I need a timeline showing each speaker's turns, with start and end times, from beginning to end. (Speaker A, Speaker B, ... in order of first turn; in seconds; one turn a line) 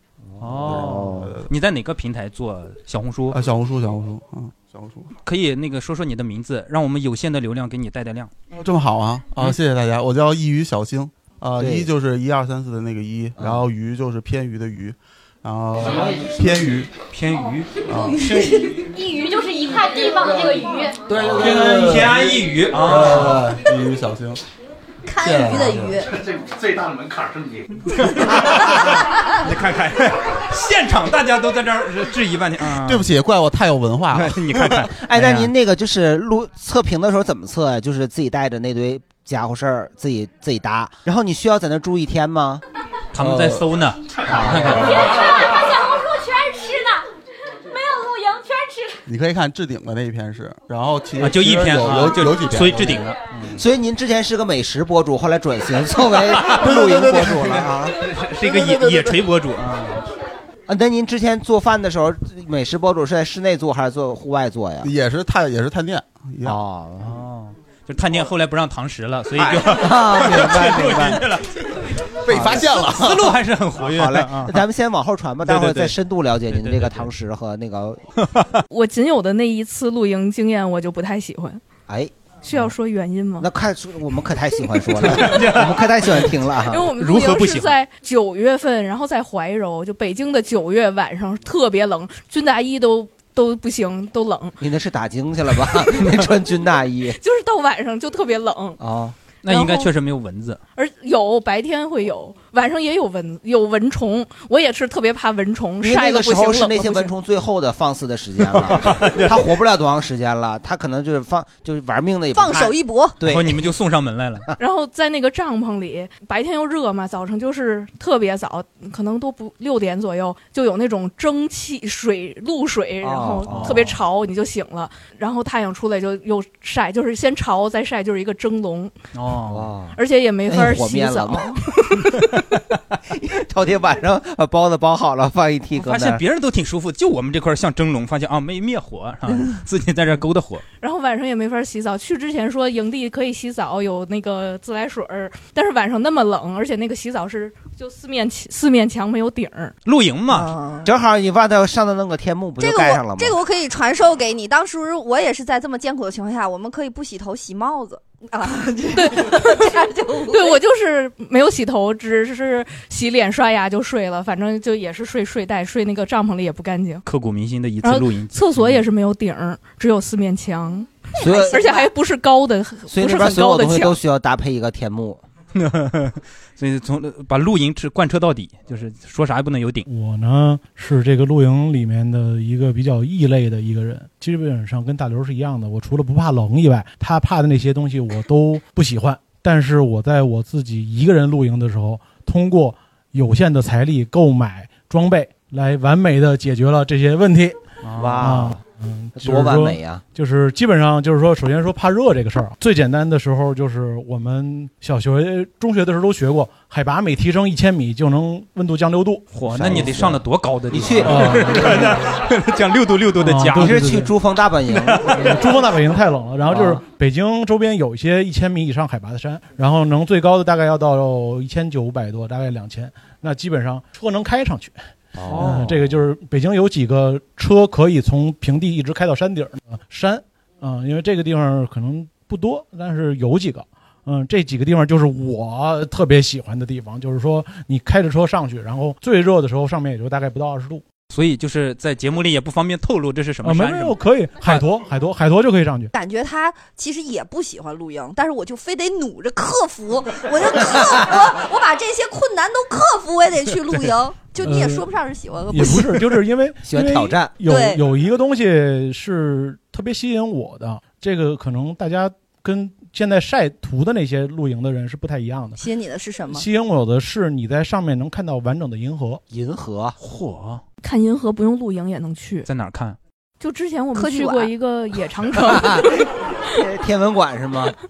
Speaker A: 0.3-1.3
Speaker B: 0.4-3.4
Speaker C: 0.6-1.5
Speaker C: 3.3-5.1
Speaker B: 5.2-8.3
Speaker C: 8.5-16.9
Speaker A: 11.6-11.9
Speaker A: 13.4-13.6
Speaker B: 17.1-17.7
Speaker C: 17.9-18.4
Speaker D: 17.9-18.9
Speaker E: 19.0-21.0
Speaker C: 21.1-24.4
Speaker B: 21.4-23.5
Speaker D: 25.1-26.2
Speaker C: 25.2-25.9
Speaker B: 27.9-33.1
Speaker C: 32.7-34.9
Speaker B: 34.1-35.5
Speaker A: 35.0-42.6
Speaker B: 43.1-45.2
Speaker A: 43.2-43.6
Speaker A: 44.3-45.0
Speaker E: 45.9-47.0
Speaker E: 47.7-48.9
Speaker C: 49.0-53.1
Speaker B: 51.2-53.6
Speaker A: 53.5-58.0
Speaker B: 56.3-56.8
Speaker C: 56.5-57.7
Speaker B: 58.0-60.0
Speaker A: 60.7-64.9
Speaker C: 64.8-66.6
Speaker A: 66.4-67.2
Speaker B: 67.0-71.6
Speaker A: 69.6-71.2
Speaker C: 72.2-73.3
Speaker A: 72.3-72.9
Speaker B: 72.3-74.6
Speaker A: 73.8-78.0
Speaker B: 75.4-76.0
Speaker B: 76.5-77.1
Speaker B: 78.2-78.6
Speaker F: 78.7-81.6
Speaker A: 81.9-82.1
Speaker F: 82.4-83.5
Speaker A: 83.4-86.9
Speaker B: 84.8-86.3
Speaker F: 86.7-94.6
Speaker B: 87.0-87.8
Speaker A: 94.6-97.2
Speaker F: 97.2-98.8
Speaker A: 98.8-99.2
Speaker B: 99.4-100.6
Speaker F: 99.5-99.9
Speaker F: 100.8-107.1
Speaker A: 105.8-113.6
Speaker B: 108.5-109.5
Speaker D: 112.3-113.2
Speaker B: 113.2-114.5
Speaker F: 114.6-128.9
Speaker A: 123.0-123.9
Speaker B: 123.5-124.0
Speaker B: 129.1-129.7
Speaker A: 129.5-131.6
Speaker F: 129.9-132.1
Speaker A: 133.1-136.2
Speaker B: 135.8-140.6
Speaker F: 140.8-149.7
Speaker B: 149.8-150.5
Speaker D: 150.3-150.9
Speaker A: 150.8-153.4
Speaker D: 152.6-160.6
Speaker F: 158.9-159.6
Speaker F: 160.3-167.0
Speaker B: 167.1-168.8
Speaker F: 167.8-170.9
Speaker D: 171.2-171.9
Speaker A: 171.2-171.6
Speaker F: 171.4-174.0
Speaker A: 172.9-175.2
Speaker B: 175.5-179.8
Speaker G: 179.8-197.6
Speaker B: 197.8-198.3
Speaker A: 197.9-198.6
Speaker G: 198.2-209.3
Speaker A: 199.2-200.0
Speaker B: 209.3-213.9
Speaker A: 209.5-212.0
Speaker G: 211.0-211.9
Speaker G: 213.2-214.1
Speaker A: 213.5-215.4
Speaker B: 214.7-215.4
Speaker G: 215.2-224.8
Speaker A: 216.5-216.8
Speaker A: 225.1-225.6
Speaker B: 225.2-225.7
Speaker G: 225.3-240.8
Speaker B: 241.1-244.6
Speaker G: 243.4-245.9
Speaker D: 245.9-256.0
Speaker G: 254.4-254.8
Speaker G: 255.5-265.6
Speaker A: 256.6-257.4
Speaker D: 257.4-257.8
Speaker D: 265.6-266.4
Speaker G: 266.3-269.2
Speaker A: 269.3-269.9
Speaker B: 270.0-270.6
Speaker F: 270.8-272.5
Speaker B: 272.4-273.0
Speaker F: 273.4-276.0
Speaker D: 273.9-274.5
Speaker A: 275.3-275.9
Speaker A: 276.5-277.7